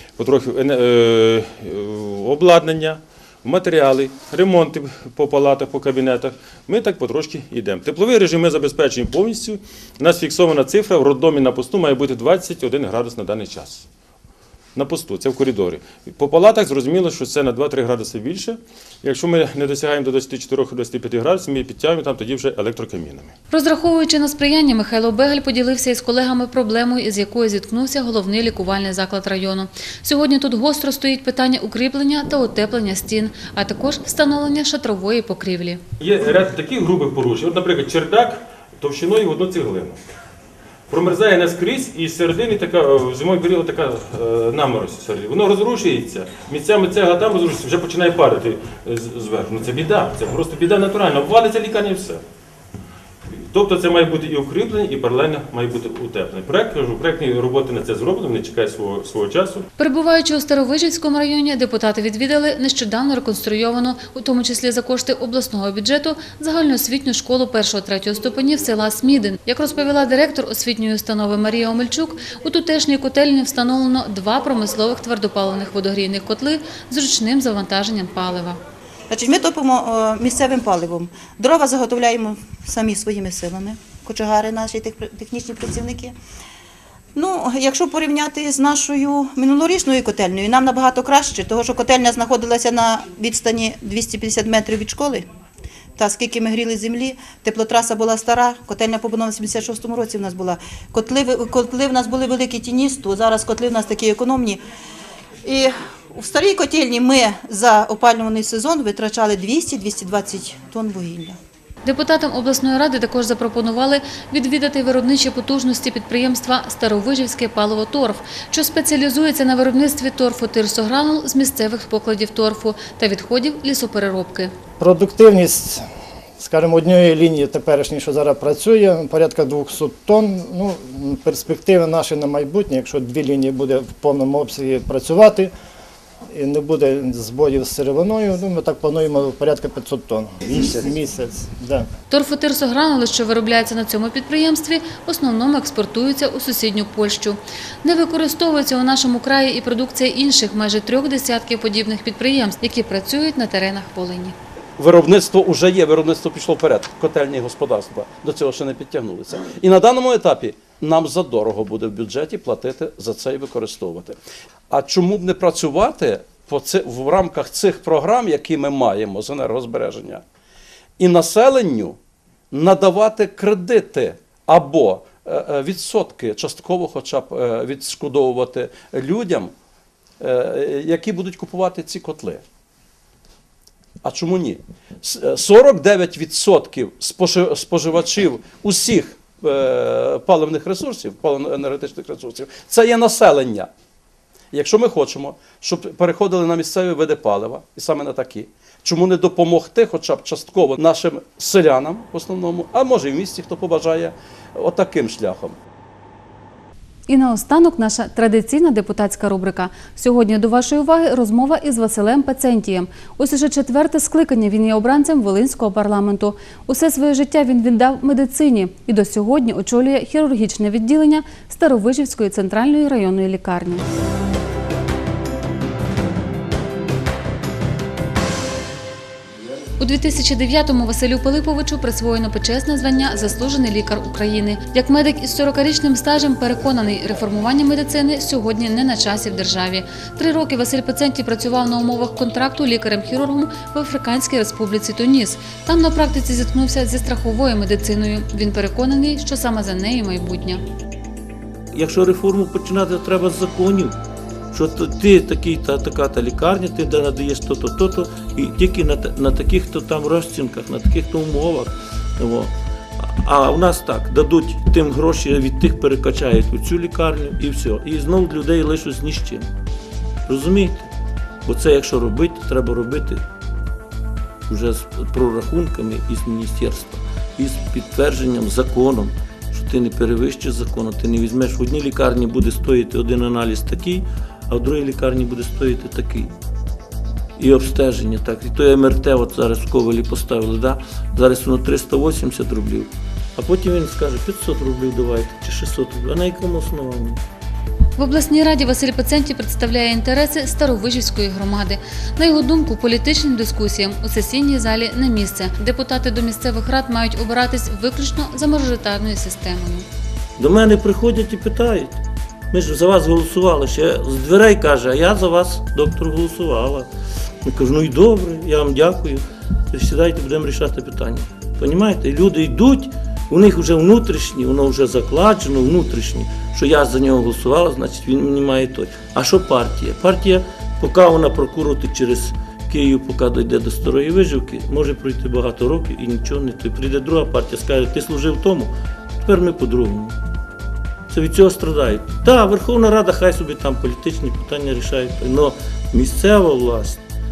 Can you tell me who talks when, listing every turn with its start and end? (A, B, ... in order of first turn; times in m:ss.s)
0:00.2-0:13.9 A
0:14.8-0:23.3 A
0:23.5-0:35.8 B
0:36.0-0:40.0 A
0:40.9-0:52.2 A
0:53.3-0:59.7 A
0:59.8-1:18.6 B
1:19.1-1:26.2 C
1:27.2-1:35.3 C
1:36.0-1:44.6 C
1:45.4-1:51.4 C
1:51.8-2:04.5 B
2:04.8-2:15.5 D
2:16.3-2:21.9 D
2:22.1-2:34.4 B
2:34.8-2:44.2 E
2:44.7-2:50.2 E
2:51.0-2:52.0 E
2:52.5-2:59.5 E
3:00.2-3:02.4 E
3:04.0-3:13.7 E
3:14.5-3:25.6 E
3:27.1-3:43.8 B
3:49.8-4:10.6 B
4:11.7-4:14.0 F
4:14.5-4:29.5 F
4:30.3-4:30.9 F
4:31.4-4:33.2 F
4:34.5-4:46.3 F
4:47.4-4:57.2 F
4:58.0-5:09.9 B
5:10.4-5:12.0 F
5:12.5-5:16.9 F
5:17.4-5:40.2 F
5:41.1-5:47.0 F